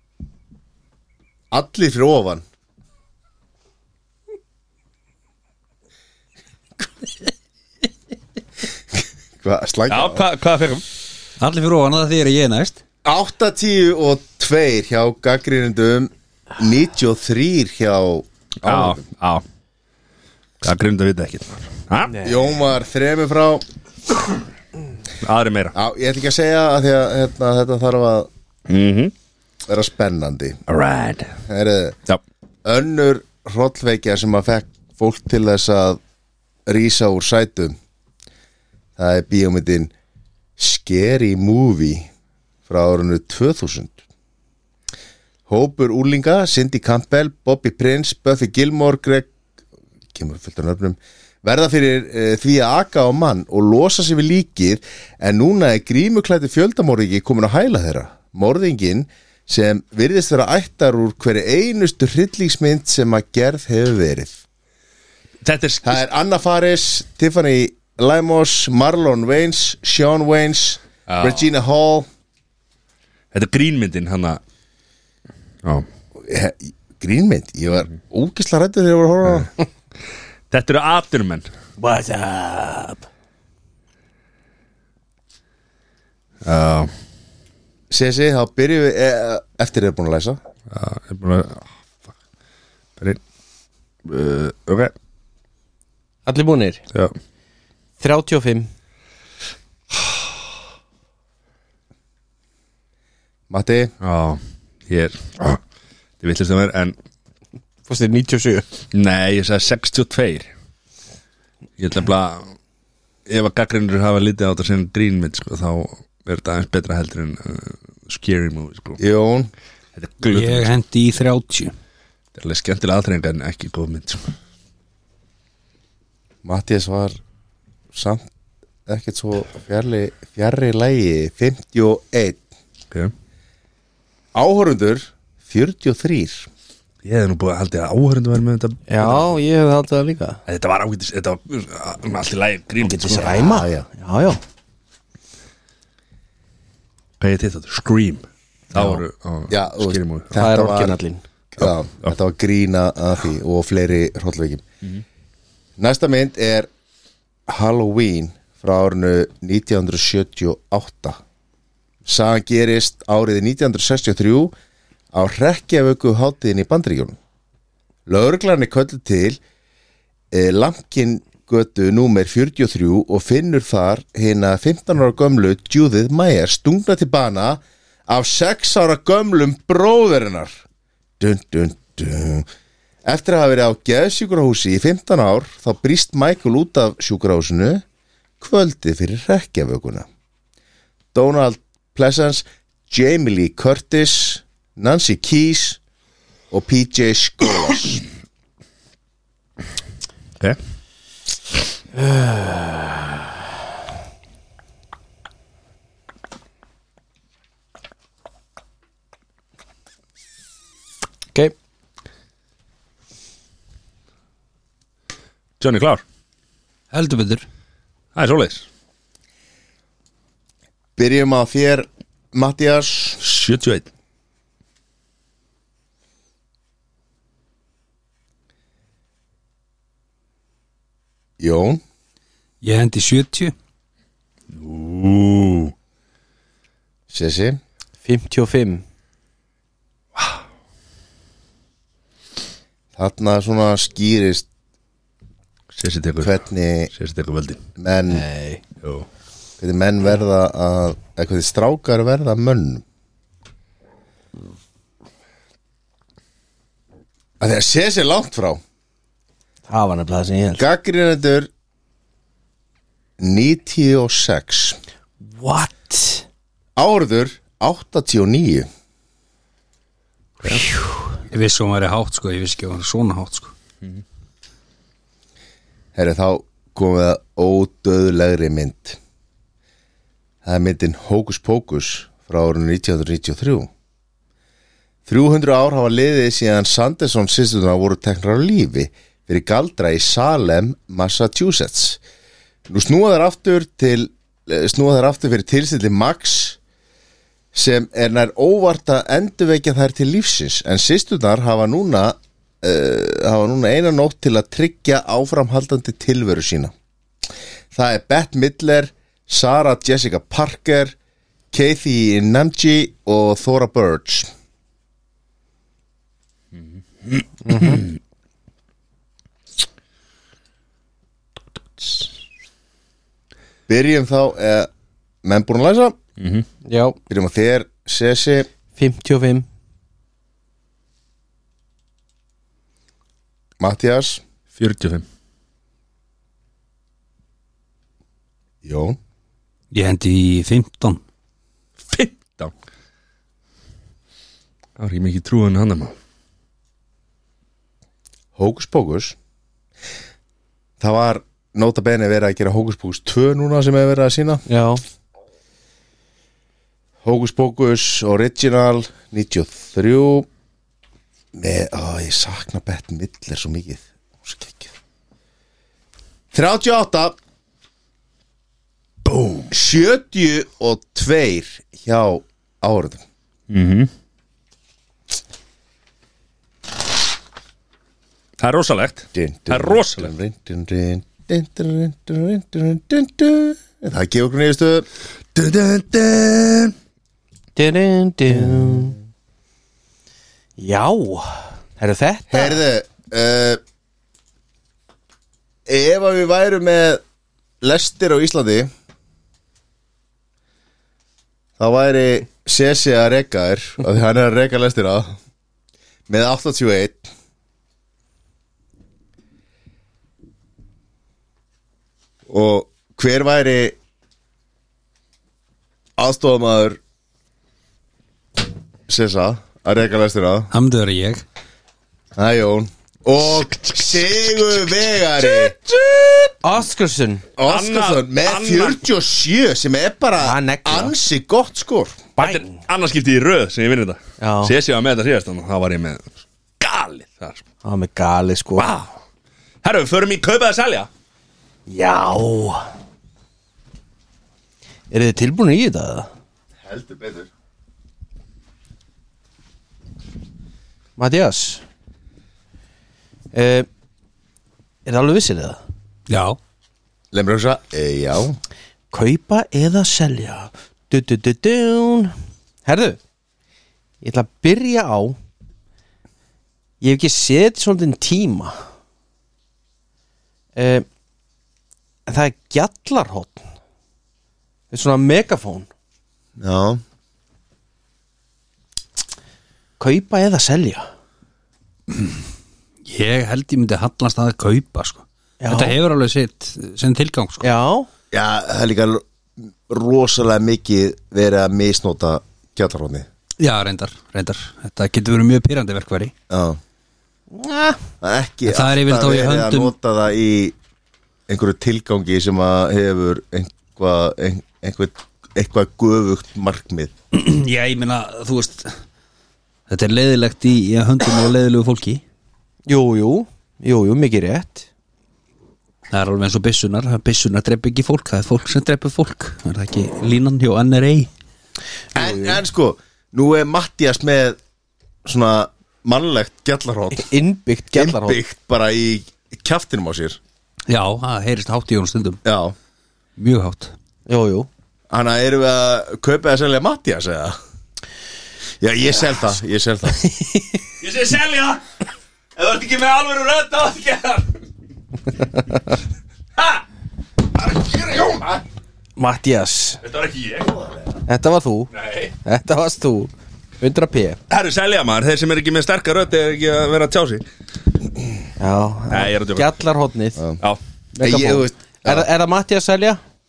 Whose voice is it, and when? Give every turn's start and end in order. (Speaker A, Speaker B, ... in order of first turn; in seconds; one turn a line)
Speaker A: 1.5-2.4
Speaker A: 9.4-10.2
Speaker B: 9.9-10.8
Speaker C: 11.4-12.8
Speaker A: 13.0-19.0
Speaker B: 18.6-19.4
Speaker B: 20.6-22.2
Speaker A: 22.2-23.6
Speaker B: 25.2-25.7
Speaker A: 25.7-28.3
Speaker B: 28.7-29.1
Speaker A: 29.7-30.6
Speaker B: 30.7-31.4
Speaker A: 31.5-32.0
Speaker A: 32.6-36.0
Speaker A: 36.6-37.8
Speaker A: 39.0-39.9
Speaker A: 40.6-42.1
Speaker A: 42.7-44.0
Speaker A: 45.5-49.3
Speaker A: 50.1-64.4
Speaker B: 65.4-66.0
Speaker A: 65.8-72.1
Speaker B: 71.1-71.5
Speaker B: 73.3-74.4
Speaker A: 76.2-79.5
Speaker B: 80.5-81.5
Speaker D: 81.8-83.0
Speaker B: 86.4-86.9
Speaker A: 87.9-90.4
Speaker B: 90.7-92.1
Speaker B: 94.0-94.9
Speaker D: 96.2-96.8
Speaker D: 98.0-98.7
Speaker A: 103.5-103.9
Speaker B: 104.0-105.6
Speaker B: 106.2-106.9
Speaker D: 107.9-108.7
Speaker B: 108.9-110.5
Speaker B: 111.8-112.5
Speaker B: 113.3-119.0
Speaker A: 119.0-119.5
Speaker B: 120.0-120.7
Speaker C: 120.3-121.7
Speaker B: 122.3-124.3
Speaker A: 126.4-127.2
Speaker A: 127.9-128.3
Speaker A: 128.9-132.4
Speaker A: 134.3-136.5
Speaker B: 137.0-139.3
Speaker D: 138.9-140.4
Speaker B: 140.5-143.4
Speaker D: 142.8-144.4
Speaker A: 143.4-143.9
Speaker B: 147.2-150.3
Speaker A: 149.5-151.0
Speaker D: 150.3-151.2
Speaker A: 151.5-154.6
Speaker A: 155.8-156.7
Speaker A: 157.5-161.2
Speaker A: 162.0-164.5
Speaker A: 165.1-167.2
Speaker A: 168.1-169.4
Speaker A: 170.3-180.6
Speaker A: 181.2-182.4
Speaker A: 183.0-187.8
Speaker A: 188.4-190.1
Speaker A: 191.1-195.8
Speaker A: 196.5-198.0
Speaker D: 201.9-203.2
Speaker B: 215.6-216.0
Speaker C: 216.9-217.4
Speaker B: 218.1-218.7
Speaker A: 220.9-223.2
Speaker B: 223.2-223.9
Speaker A: 231.4-231.8
Speaker C: 232.6-233.5
Speaker B: 234.5-235.7
Speaker A: 237.1-237.6
Speaker D: 238.0-238.8
Speaker A: 242.9-244.5
Speaker B: 245.7-246.3
Speaker A: 246.2-246.9
Speaker B: 246.9-247.6
Speaker A: 247.8-248.2
Speaker D: 248.1-248.6
Speaker A: 249.6-252.8
Speaker A: 257.4-258.6
Speaker D: 259.7-260.6
Speaker A: 260.6-261.5
Speaker A: 263.2-264.8
Speaker D: 265.2-266.2
Speaker A: 266.8-268.7
Speaker C: 271.3-273.5
Speaker A: 275.9-279.0
Speaker A: 280.4-283.7
Speaker A: 285.1-292.0
Speaker A: 292.7-296.6
Speaker A: 297.5-306.7
Speaker A: 307.7-310.9
Speaker A: 311.5-314.3
Speaker B: 317.1-317.8
Speaker D: 317.4-317.8
Speaker A: 323.7-324.7
Speaker A: 325.2-325.9
Speaker B: 326.2-326.4
Speaker D: 326.6-327.0
Speaker A: 327.1-328.5
Speaker D: 328.7-329.5
Speaker A: 333.6-334.2
Speaker B: 334.6-335.0
Speaker A: 338.6-339.0
Speaker C: 339.7-341.0
Speaker B: 341.9-342.5
Speaker B: 344.8-345.9
Speaker A: 348.4-349.1
Speaker A: 350.8-354.4
Speaker D: 354.5-354.8
Speaker A: 357.0-360.3
Speaker A: 361.3-364.7
Speaker A: 366.3-367.2
Speaker B: 369.1-369.5
Speaker A: 369.5-373.0
Speaker B: 373.5-373.9
Speaker B: 378.4-380.1
Speaker A: 379.1-384.9
Speaker B: 385.3-386.7
Speaker D: 387.6-389.0
Speaker D: 390.6-392.6
Speaker A: 392.3-393.6
Speaker A: 395.6-397.0
Speaker A: 397.6-398.7
Speaker A: 401.6-405.1
Speaker A: 406.1-407.1
Speaker A: 412.3-413.8
Speaker A: 416.0-416.8
Speaker A: 418.9-420.5
Speaker C: 420.5-421.2
Speaker A: 422.1-425.6
Speaker B: 423.4-424.6
Speaker D: 426.4-427.2
Speaker A: 427.4-432.1
Speaker B: 427.4-428.8
Speaker D: 430.2-430.9
Speaker D: 432.2-432.5
Speaker B: 432.2-437.4
Speaker D: 434.2-434.5
Speaker D: 437.6-438.7
Speaker B: 438.6-439.0
Speaker B: 439.6-440.9
Speaker D: 441.7-442.6
Speaker D: 444.9-446.1
Speaker A: 446.6-447.3
Speaker D: 451.0-451.6
Speaker D: 453.3-453.7
Speaker D: 454.8-455.6
Speaker C: 456.1-456.4
Speaker A: 457.1-458.4
Speaker D: 458.9-462.1
Speaker D: 462.6-463.0
Speaker D: 464.0-465.1
Speaker D: 466.8-468.6
Speaker D: 470.6-470.9
Speaker D: 472.1-473.5
Speaker D: 474.7-475.7
Speaker A: 476.4-476.8
Speaker D: 479.8-480.9
Speaker C: 482.9-487.5
Speaker D: 485.4-485.8
Speaker D: 487.4-487.9
Speaker A: 488.1-493.1
Speaker C: 493.4-496.1
Speaker A: 496.3-496.6
Speaker D: 497.3-497.8
Speaker A: 498.0-500.6
Speaker C: 498.4-499.7
Speaker A: 501.3-506.9
Speaker C: 507.1-508.8
Speaker C: 509.7-512.0
Speaker D: 512.7-514.7
Speaker C: 515.9-521.1
Speaker D: 521.9-522.4
Speaker A: 521.9-524.4
Speaker A: 525.0-527.1
Speaker D: 526.9-528.2
Speaker A: 527.7-530.2
Speaker C: 530.7-532.2
Speaker A: 532.2-532.5
Speaker C: 533.2-533.7
Speaker D: 534.1-534.5
Speaker A: 534.9-537.4
Speaker A: 538.6-540.0
Speaker D: 540.1-540.6
Speaker B: 540.8-541.6
Speaker B: 542.4-544.4
Speaker B: 546.4-546.6
Speaker B: 547.3-548.4
Speaker D: 549.0-549.8
Speaker B: 549.8-550.8
Speaker D: 551.1-551.7
Speaker B: 551.7-552.1
Speaker D: 552.2-554.2
Speaker B: 554.3-557.2
Speaker D: 558.4-560.2
Speaker B: 558.9-559.5
Speaker D: 560.9-563.0
Speaker A: 561.0-562.1